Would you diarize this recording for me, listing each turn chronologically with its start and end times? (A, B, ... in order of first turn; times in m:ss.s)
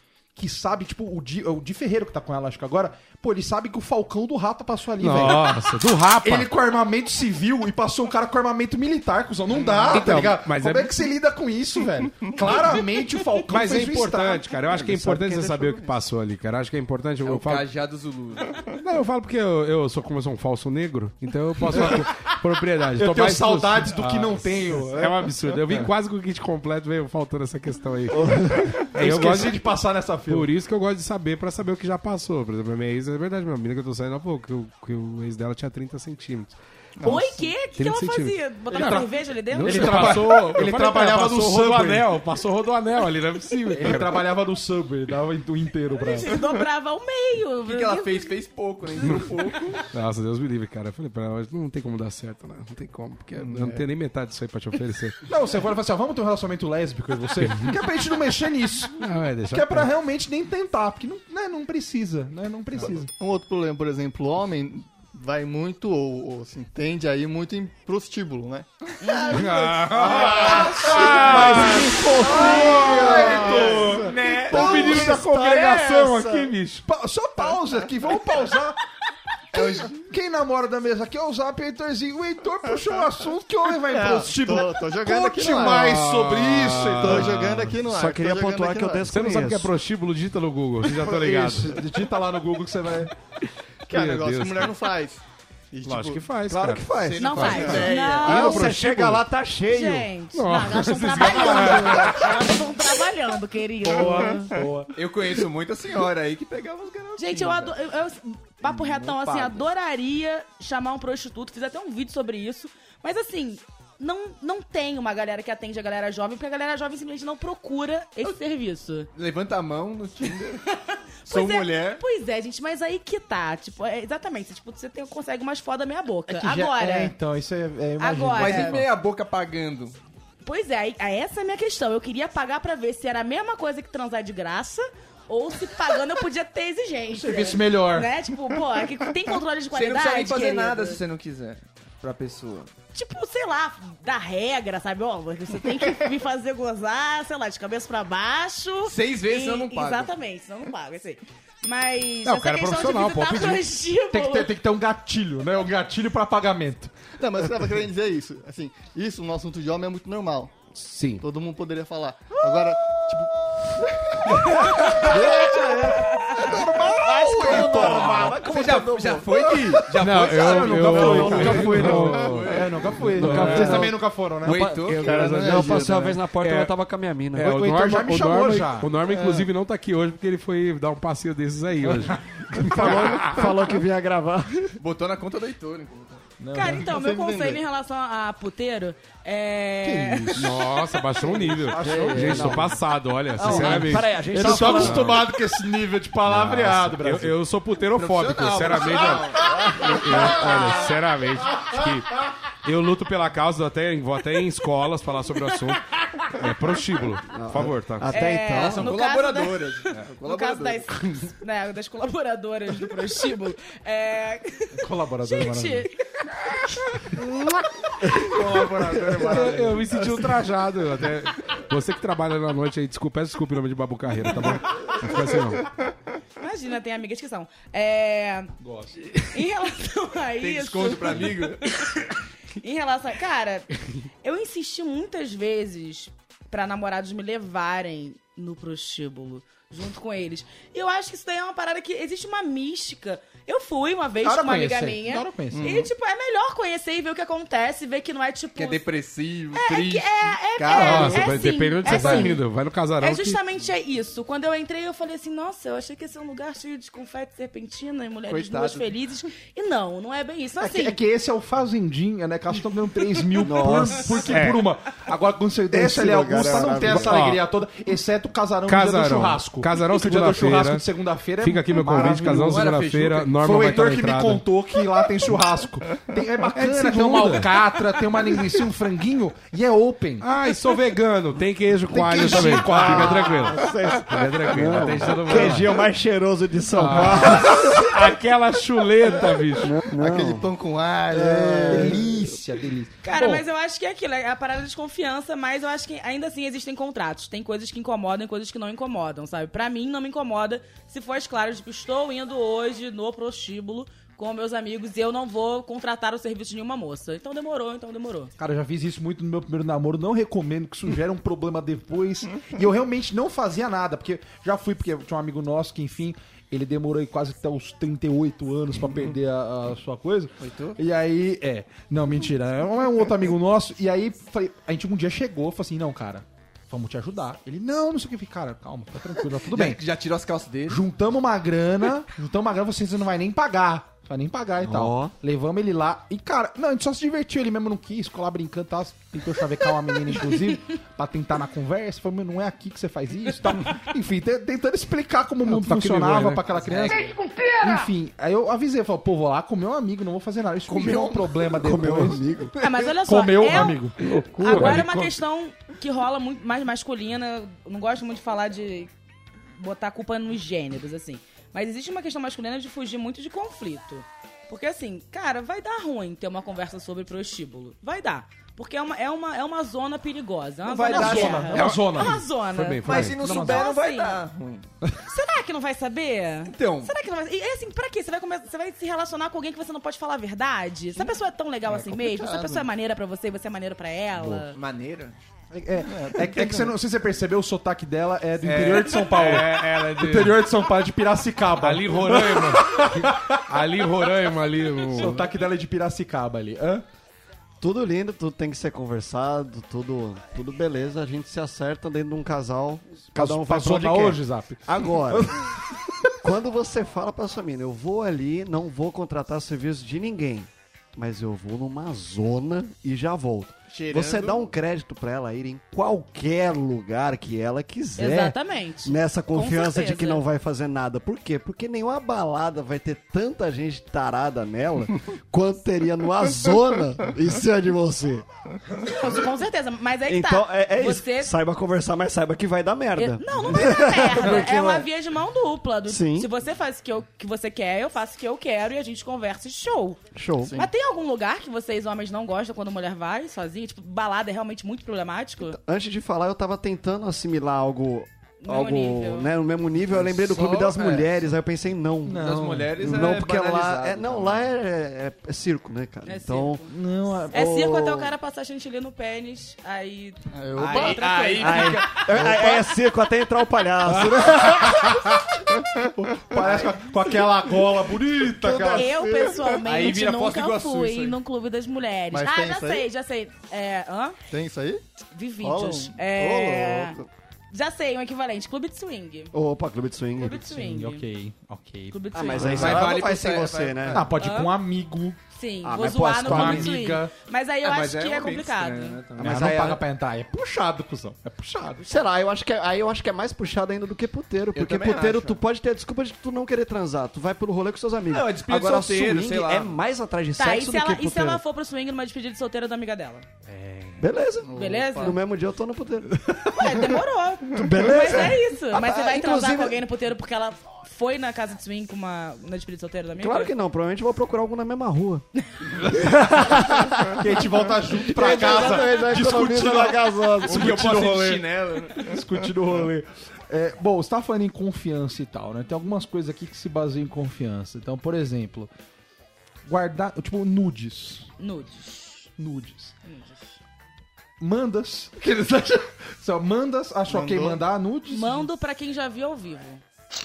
0:00.4-0:05.7 A
0:05.0-0:06.5 B
0:06.2-0:14.5 A
0:09.6-0:10.2 C
0:09.9-0:10.9 B
0:13.4-0:17.7 B
0:14.7-0:16.0 D
0:17.2-0:18.7 C
0:18.8-0:29.6 B
0:21.7-0:22.1 A
0:23.0-0:25.9 A
0:28.1-0:28.8 D
0:29.0-0:30.5 A
0:30.3-0:36.6 B
0:37.0-0:37.5 E
0:37.0-0:40.2 F
0:37.7-0:44.2 B
0:38.7-0:42.1 A
0:43.7-0:46.4 A
0:46.0-0:48.3 F
0:47.7-0:49.8 C
0:49.8-0:55.2 B
0:53.4-0:53.8 E
0:55.3-1:03.1 A
0:57.4-0:57.8 B
0:59.0-0:59.9 B
1:02.8-1:08.7 E
1:09.0-1:09.5 F
1:09.3-1:12.0 B
1:09.4-1:11.4 E
1:10.2-1:16.0 A
1:10.4-1:13.9 D
1:12.2-1:15.1 E
1:14.0-1:14.7 C
1:14.1-1:16.8 B
1:14.5-1:16.5 D
1:16.8-1:18.8 A
1:19.5-1:27.5 A
1:19.6-1:20.0 E
1:23.8-1:26.0 E
1:25.6-1:27.7 B
1:27.0-1:29.0 E
1:27.9-1:29.7 D
1:29.1-1:31.8 B
1:31.1-1:33.1 A
1:33.9-1:34.8 B
1:33.9-1:36.3 E
1:35.8-1:39.3 B
1:36.5-1:37.7 D
1:37.0-1:38.4 C
1:37.2-1:38.7 F
1:38.2-1:40.1 D
1:39.7-1:44.5 F
1:40.3-1:42.4 B
1:43.9-1:44.9 A
1:45.0-1:47.8 C
1:47.2-1:59.1 F
1:59.2-2:00.6 C
2:01.2-2:07.2 F
2:01.3-2:02.0 C
2:06.3-2:08.9 A
2:08.0-2:08.8 F
2:08.4-2:10.0 C
2:10.4-2:21.0 F
2:17.1-2:18.1 A
2:19.7-2:22.7 C
2:22.9-2:34.5 F
2:28.8-2:30.1 C
2:32.2-2:33.7 B
2:34.1-2:36.9 A
2:37.2-2:46.2 E
2:40.7-2:41.2 B
2:44.9-2:46.0 D
2:45.0-2:48.3 A
2:45.8-2:46.4 F
2:46.8-2:49.8 D
2:47.4-2:47.8 E
2:47.6-2:55.8 C
2:50.0-2:54.0 B
2:50.2-2:55.1 A
2:50.9-2:52.1 D
2:52.0-2:52.5 E
2:53.3-2:53.8 D
2:54.7-2:56.7 B
2:55.0-2:56.1 E
2:55.4-2:57.6 D
2:57.3-3:03.5 B
2:57.4-2:59.2 A
3:02.0-3:03.0 A
3:02.5-3:04.8 D
3:04.8-3:06.2 C
3:06.4-3:06.9 A
3:06.5-3:10.6 F
3:06.8-3:07.6 E
3:09.8-3:10.6 A
3:10.3-3:15.4 B
3:11.4-3:12.8 A
3:11.8-3:12.7 D
3:13.3-3:17.4 A
3:13.4-3:15.0 D
3:16.2-3:28.2 B
3:18.0-3:19.5 C
3:19.6-3:20.4 D
3:19.8-3:20.7 A
3:27.3-3:28.9 D
3:28.1-3:38.4 F
3:28.5-3:31.2 C
3:34.8-3:35.9 A
3:38.1-3:40.3 A
3:39.2-3:45.7 B
3:46.4-3:48.6 F
3:48.6-3:49.2 A
3:49.3-3:52.0 F
3:50.4-3:51.6 C
3:52.6-3:53.7 F
3:54.2-4:08.8 F
4:04.2-4:05.8 A
4:05.5-4:05.9 E
4:08.6-4:11.3 C
4:09.6-4:12.4 F
4:10.7-4:13.4 B
4:11.8-4:12.3 A
4:13.0-4:21.0 F
4:18.3-4:18.9 C
4:20.6-4:32.8 A
4:23.3-4:24.4 D
4:24.3-4:24.7 B
4:25.7-4:27.3 D
4:26.8-4:27.4 B
4:28.7-4:30.8 B
4:31.4-4:34.4 B
4:32.1-4:33.8 C
4:33.4-4:40.3 A
4:36.5-4:37.6 B
4:40.2-4:45.8 B
4:41.9-4:43.5 A
4:41.9-4:48.0 D
4:46.7-4:49.9 B
4:46.8-4:47.5 A
4:49.6-4:50.5 D
4:50.0-4:52.0 E
4:51.1-4:52.4 D
4:51.7-4:53.4 A
4:53.0-5:08.3 F
5:08.4-5:29.8 A
5:20.4-5:20.8 C
5:29.5-5:30.8 C
5:30.7-5:52.2 A
5:34.6-5:35.1 D
5:45.5-5:46.9 B
5:50.7-5:52.9 D
5:52.6-5:53.8 F
5:53.0-5:55.1 A
5:54.1-5:54.7 D
5:54.4-5:58.9 F
5:54.5-5:55.1 B
5:59.6-6:14.2 F
6:10.6-6:11.7 C
6:10.9-6:12.2 A
6:11.6-6:13.2 B
6:12.9-6:14.7 C
6:12.9-6:13.6 A
6:15.1-6:24.6 F
6:16.5-6:16.9 C
6:21.7-6:22.7 C
6:24.5-6:25.2 C
6:25.5-6:33.6 A
6:25.9-6:26.8 E
6:28.4-6:30.4 B
6:31.5-6:35.3 B
6:34.9-6:36.8 A
6:37.6-6:45.5 D
6:43.2-6:45.4 A
6:46.2-7:08.2 D
6:53.7-6:54.5 C
6:58.0-7:00.2 F
7:08.8-7:11.3 F
7:10.1-7:14.9 D
7:13.0-7:20.0 F
7:15.9-7:16.3 D
7:20.1-7:20.6 D
7:20.4-7:20.7 E
7:20.6-7:25.6 F
7:25.4-7:36.6 D
7:28.4-7:29.3 F
7:29.9-7:31.2 C
7:32.0-7:32.8 A
7:32.1-7:34.5 C
7:36.1-7:36.7 F
7:36.7-7:37.4 A
7:37.3-7:38.1 D
7:37.3-7:40.2 F
7:40.3-7:42.1 E
7:40.6-7:42.6 C
7:40.7-7:45.2 D
7:43.8-7:45.2 A
7:46.0-7:49.1 A
7:46.3-7:46.9 E
7:48.2-7:49.6 E
7:48.7-7:54.2 F
7:49.6-7:51.2 C
7:52.1-7:52.9 E
7:54.3-7:54.8 E
7:55.1-7:57.0 F
7:55.4-7:56.4 E
7:56.2-7:57.0 D
7:57.5-7:59.3 F
7:59.3-8:00.5 D
8:00.2-8:01.0 F
8:00.3-8:02.8 A
8:01.9-8:02.8 F
8:02.2-8:04.0 D
8:02.4-8:04.0 C
8:03.9-8:05.2 A
8:04.2-8:04.5 F
8:05.3-8:09.0 F
8:05.6-8:06.8 D
8:06.2-8:07.1 A
8:07.6-8:09.8 C
8:09.2-8:11.8 A
8:09.2-8:09.7 D
8:11.8-8:21.4 D
8:14.5-8:15.4 C
8:18.1-8:19.8 C
8:20.4-8:23.3 F
8:23.5-8:24.0 A
8:24.0-8:26.9 D
8:24.4-8:25.2 E
8:24.5-8:25.2 F
8:26.5-8:33.5 F
8:27.5-8:29.8 D
8:33.2-8:35.2 D
8:35.9-8:40.9 D
8:37.1-8:41.4 A
8:38.2-8:39.0 F
8:40.5-8:42.1 C
8:42.0-8:48.7 A
8:49.7-8:51.3 A
8:51.4-8:52.3 F
8:52.4-8:53.0 A
8:53.0-8:53.6 F
8:54.4-8:58.5 A
8:57.1-8:57.6 E
8:58.1-8:59.8 F